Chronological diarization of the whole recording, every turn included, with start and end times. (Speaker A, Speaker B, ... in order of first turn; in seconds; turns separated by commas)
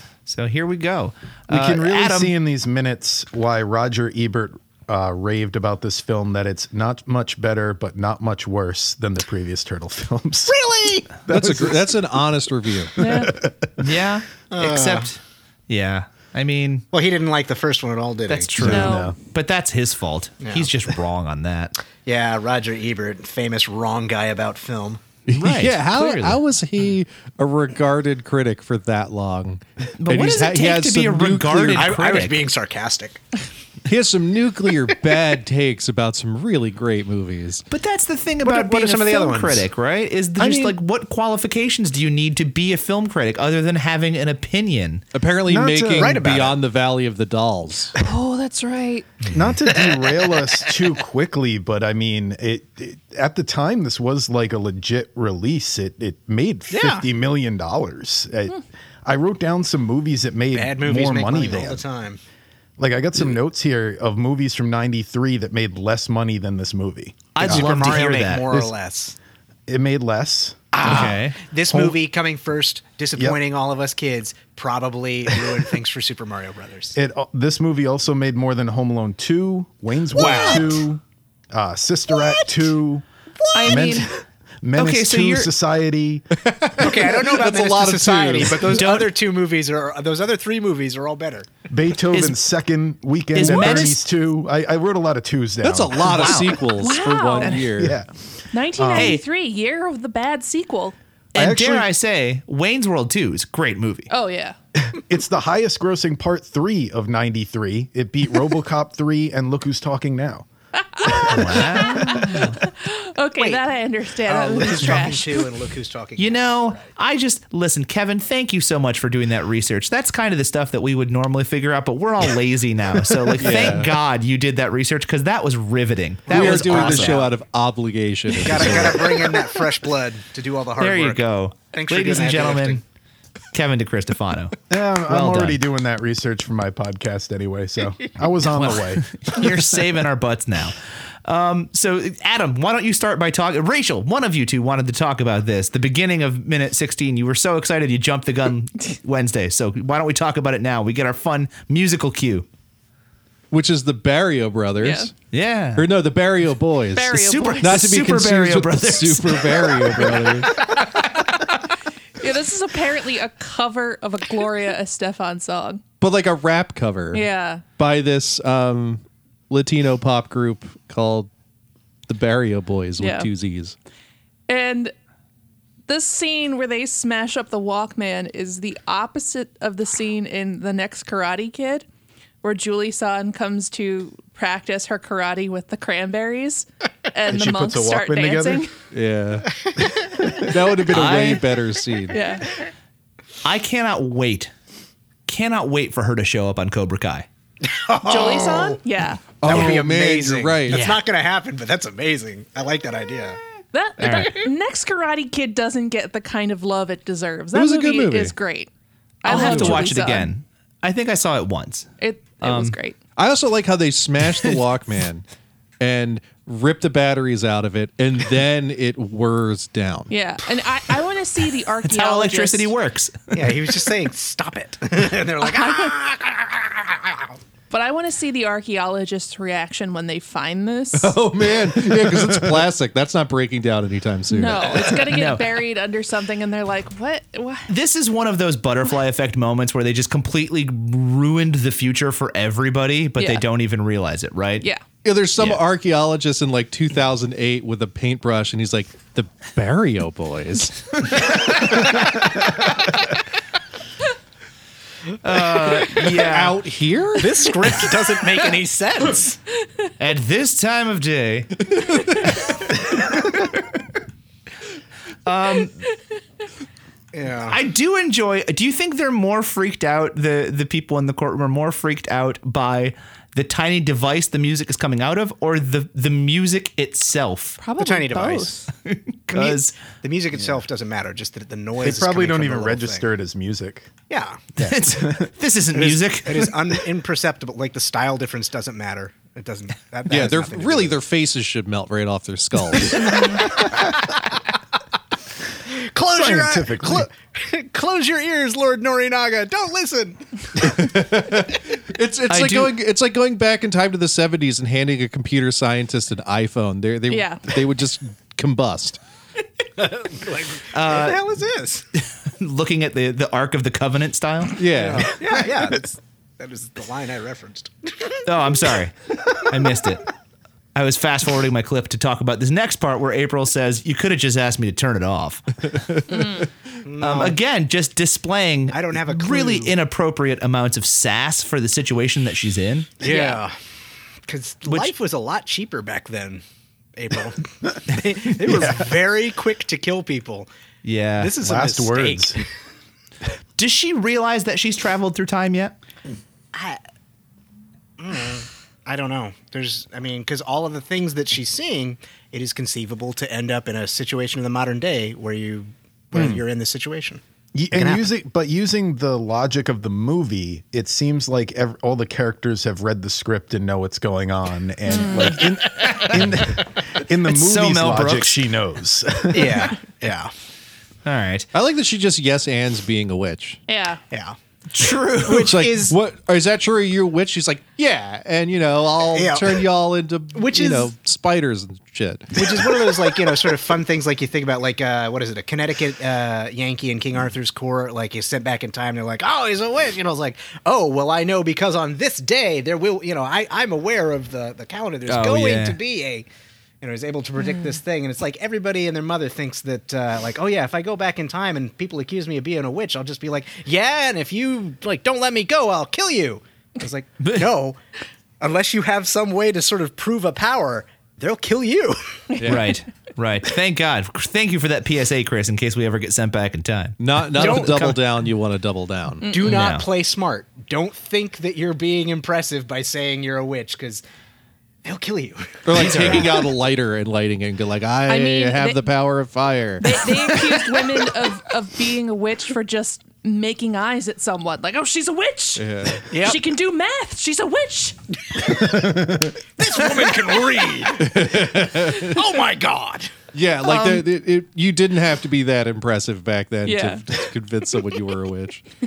Speaker A: 0.2-2.3, Speaker B: 1.5-10.6, Speaker C: 10.5-11.2, Speaker B: 11.3-12.1, Speaker D: 11.3-12.9, Speaker E: 13.0-13.3, Speaker B: 13.0-13.5, Speaker A: 13.8-16.9, Speaker C: 14.5-15.1, Speaker C: 16.9-18.8, Speaker A: 18.3-21.8, Speaker B: 18.6-19.1, Speaker E: 18.6-19.1, Speaker C: 20.4-20.7, Speaker C: 22.0-25.0, Speaker D: 25.3-32.0, Speaker A: 25.3-26.4, Speaker A: 30.0-32.4, Speaker C: 31.7-33.2, Speaker D: 33.9-37.6, Speaker A: 37.7-45.0, Speaker C: 38.4-39.6, Speaker C: 40.4-40.7, Speaker D: 45.1-47.9, Speaker B: 45.5-46.2, Speaker C: 45.9-46.6, Speaker E: 48.0-49.1, Speaker B: 49.3-61.8, Speaker C: 56.7-57.0, Speaker C: 60.5-62.2, Speaker B: 62.8-67.9, Speaker A: 67.3-68.6, Speaker C: 67.4-69.2, Speaker B: 69.7-71.0, Speaker C: 70.7-77.0, Speaker A: 70.8-71.4, Speaker B: 71.7-72.0, Speaker B: 76.9-83.0, Speaker C: 80.1-80.8, Speaker E: 83.5-84.1, Speaker B: 83.6-86.3, Speaker A: 84.8-85.5, Speaker D: 86.5-88.9, Speaker C: 86.8-91.5, Speaker A: 88.5-89.1, Speaker B: 91.7-96.4, Speaker A: 92.1-92.4, Speaker A: 93.3-94.0, Speaker D: 95.6-98.0, Speaker A: 96.0-96.6, Speaker E: 96.8-97.6, Speaker A: 97.4-97.7, Speaker B: 97.8-98.1, Speaker E: 98.5-100.9, Speaker B: 98.8-99.2, Speaker A: 98.9-99.2, Speaker A: 101.3-104.1, Speaker B: 101.3-101.9, Speaker E: 104.1-104.5, Speaker B: 104.9-110.5, Speaker E: 110.9-115.5, Speaker A: 111.2-112.4, Speaker C: 113.4-113.6, Speaker C: 114.2-116.8, Speaker A: 116.2-127.2, Speaker D: 123.4-123.9, Speaker C: 126.3-127.3, Speaker D: 126.3-129.4, Speaker C: 128.3-132.8, Speaker A: 130.8-132.8, Speaker A: 133.5-135.6, Speaker B: 134.7-139.1, Speaker A: 138.4-152.4, Speaker D: 153.5-155.1, Speaker E: 154.8-155.1, Speaker A: 155.3-155.9, Speaker D: 155.8-160.6, Speaker E: 156.9-157.8, Speaker A: 157.1-160.3, Speaker E: 160.6-161.5, Speaker E: 162.2-165.8, Speaker D: 166.0-167.2, Speaker E: 167.1-167.6, Speaker D: 167.8-171.3, Speaker D: 172.1-173.7, Speaker E: 173.0-173.3, Speaker E: 174.5-174.9, Speaker E: 175.9-181.8, Speaker E: 182.4-188.7, Speaker B: 187.3-188.7, Speaker D: 188.9-189.5, Speaker D: 190.4-192.2, Speaker A: 190.9-191.5, Speaker E: 192.1-192.4, Speaker A: 193.4-194.5, Speaker A: 195.3-197.3, Speaker C: 197.6-198.8, Speaker E: 198.0-199.2, Speaker D: 199.4-200.9, Speaker C: 199.4-203.4, Speaker A: 200.7-201.0, Speaker E: 203.7-208.7, Speaker A: 204.0-204.4, Speaker D: 207.5-208.3, Speaker E: 209.2-210.3, Speaker A: 209.2-211.9, Speaker D: 209.3-209.9, Speaker E: 212.0-213.0, Speaker A: 212.4-212.8, Speaker D: 213.2-215.2, Speaker D: 215.8-220.1, Speaker E: 220.1-222.7, Speaker A: 221.8-223.8, Speaker C: 223.3-227.3, Speaker E: 225.4-225.9, Speaker E: 227.7-231.1, Speaker D: 230.9-234.9, Speaker E: 234.3-237.7, Speaker A: 235.0-235.5, Speaker A: 237.7-244.7, Speaker E: 243.2-243.4, Speaker D: 245.0-252.0, Speaker A: 255.2-256.6, Speaker D: 256.2-257.6, Speaker C: 257.2-259.4, Speaker A: 260.0-261.6, Speaker D: 261.7-262.1, Speaker A: 262.4-263.4, Speaker A: 265.2-265.8, Speaker C: 267.1-267.6, Speaker A: 267.5-277.6, Speaker E: 277.6-278.7, Speaker C: 277.8-278.6, Speaker A: 278.9-279.8, Speaker C: 279.3-283.0, Speaker B: 281.8-283.9, Speaker C: 284.1-284.5, Speaker B: 284.6-285.3, Speaker A: 284.6-286.7, Speaker C: 285.7-291.0, Speaker D: 290.1-293.2, Speaker C: 292.8-294.0, Speaker C: 295.7-300.9, Speaker B: 296.1-297.1, Speaker D: 300.6-309.0, Speaker A: 302.3-302.7, Speaker E: 307.1-307.4, Speaker C: 309.8-311.8, Speaker A: 310.7-311.2, Speaker A: 312.0-314.6, Speaker D: 314.6-315.2, Speaker C: 314.7-318.2, Speaker A: 318.2-320.1, Speaker A: 320.7-325.6, Speaker E: 326.1-326.5, Speaker C: 326.8-327.4, Speaker A: 327.0-332.9, Speaker C: 328.7-329.7, Speaker C: 333.0-333.5, Speaker E: 333.0-333.4, Speaker C: 334.3-336.4, Speaker A: 334.7-334.9, Speaker C: 336.9-340.5, Speaker B: 338.5-338.8, Speaker A: 340.8-341.3, Speaker C: 341.2-342.5, Speaker B: 341.4-342.4, Speaker A: 343.6-345.7, Speaker C: 346.5-346.8, Speaker C: 348.0-357.2, Speaker B: 356.1-356.4, Speaker B: 357.5-369.8, Speaker C: 357.7-358.1, Speaker E: 364.9-365.4, Speaker A: 365.7-366.5, Speaker A: 367.2-368.4, Speaker C: 369.3-370.3, Speaker A: 371.0-371.5, Speaker D: 371.5-373.6, Speaker E: 373.7-374.0, Speaker C: 374.1-374.4, Speaker A: 374.7-375.5, Speaker C: 375.1-375.9, Speaker D: 375.3-382.9, Speaker C: 379.1-379.6, Speaker C: 380.3-380.9, Speaker C: 382.4-396.3, Speaker A: 395.1-395.8, Speaker C: 396.8-407.8, Speaker A: 407.2-407.6, Speaker C: 408.4-412.2, Speaker D: 412.4-412.7, Speaker A: 412.4-417.0, Speaker D: 417.0-419.3, Speaker C: 417.3-418.1, Speaker E: 419.2-419.6, Speaker C: 419.3-424.0, Speaker A: 419.4-419.9, Speaker C: 424.8-426.5, Speaker D: 425.6-430.1, Speaker A: 425.7-426.3, Speaker E: 428.1-428.9, Speaker E: 429.8-438.6, Speaker D: 435.6-436.1, Speaker C: 436.1-436.4, Speaker B: 438.6-439.3, Speaker C: 439.6-443.1, Speaker D: 440.9-442.2, Speaker D: 443.3-448.6, Speaker A: 443.7-444.0, Speaker E: 446.6-447.0